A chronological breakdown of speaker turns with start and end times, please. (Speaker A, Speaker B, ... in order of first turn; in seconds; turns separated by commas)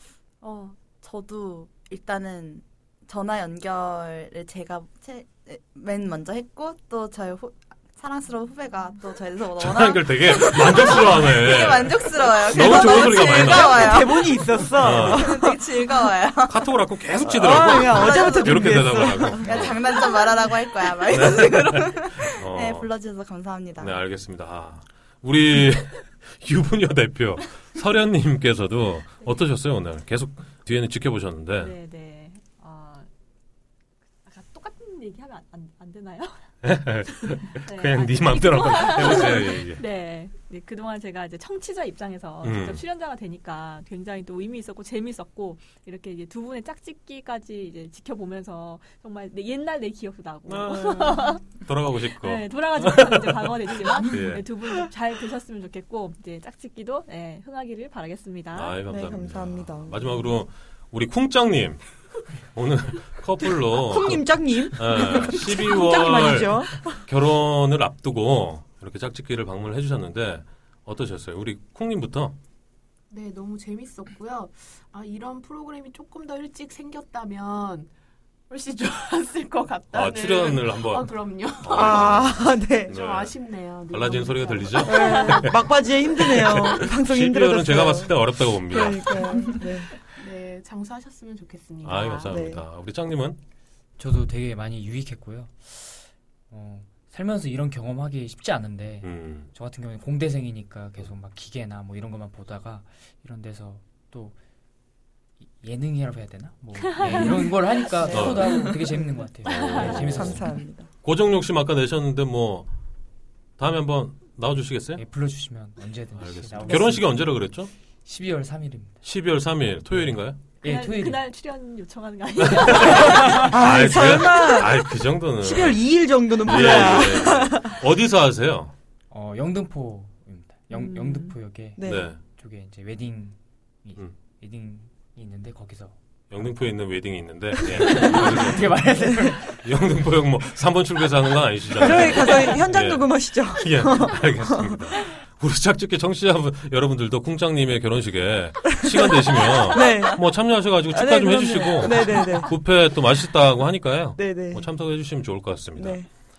Speaker A: 0.4-16.8, Speaker B: 9.6-14.1, Speaker C: 12.5-15.8, Speaker B: 14.8-15.4, Speaker B: 16.4-19.9, Speaker C: 17.2-19.8, Speaker A: 17.4-24.0, Speaker B: 21.1-22.9, Speaker B: 23.8-31.7, Speaker D: 31.6-33.1, Speaker D: 34.2-36.3, Speaker B: 36.6-39.8, Speaker D: 37.3-51.5, Speaker B: 42.4-42.8, Speaker B: 50.5-54.4, Speaker D: 52.0-58.8, Speaker B: 58.5-61.8, Speaker C: 58.9-60.3, Speaker B: 62.5-72.4, Speaker C: 63.4-67.0, Speaker E: 73.1-77.9, Speaker E: 78.5-82.3, Speaker B: 79.9-83.3, Speaker C: 81.7-83.0, Speaker E: 82.9-85.3, Speaker B: 83.9-89.3, Speaker C: 84.8-89.9, Speaker E: 90.1-92.4, Speaker B: 91.8-93.4, Speaker C: 92.3-92.6, Speaker F: 94.0-104.4, Speaker B: 99.0-99.5, Speaker F: 105.4-110.5, Speaker D: 106.8-107.6, Speaker C: 108.0-110.9, Speaker B: 108.1-108.6, Speaker B: 109.4-110.5, Speaker D: 109.5-110.3, Speaker B: 111.0-112.7, Speaker B: 113.6-115.0, Speaker F: 115.0-117.5, Speaker B: 116.2-117.7, Speaker F: 118.0-119.0, Speaker B: 119.0-120.4, Speaker F: 119.9-121.2, Speaker D: 120.6-123.5, Speaker B: 122.4-128.7, Speaker C: 123.3-127.8, Speaker F: 129.1-136.6, Speaker D: 130.7-131.4, Speaker C: 131.8-132.1, Speaker B: 131.8-132.2, Speaker B: 136.3-156.0, Speaker F: 137.6-139.6, Speaker C: 138.7-139.4, Speaker C: 141.8-144.8, Speaker C: 148.8-152.6, Speaker C: 154.2-154.7, Speaker C: 155.8-156.1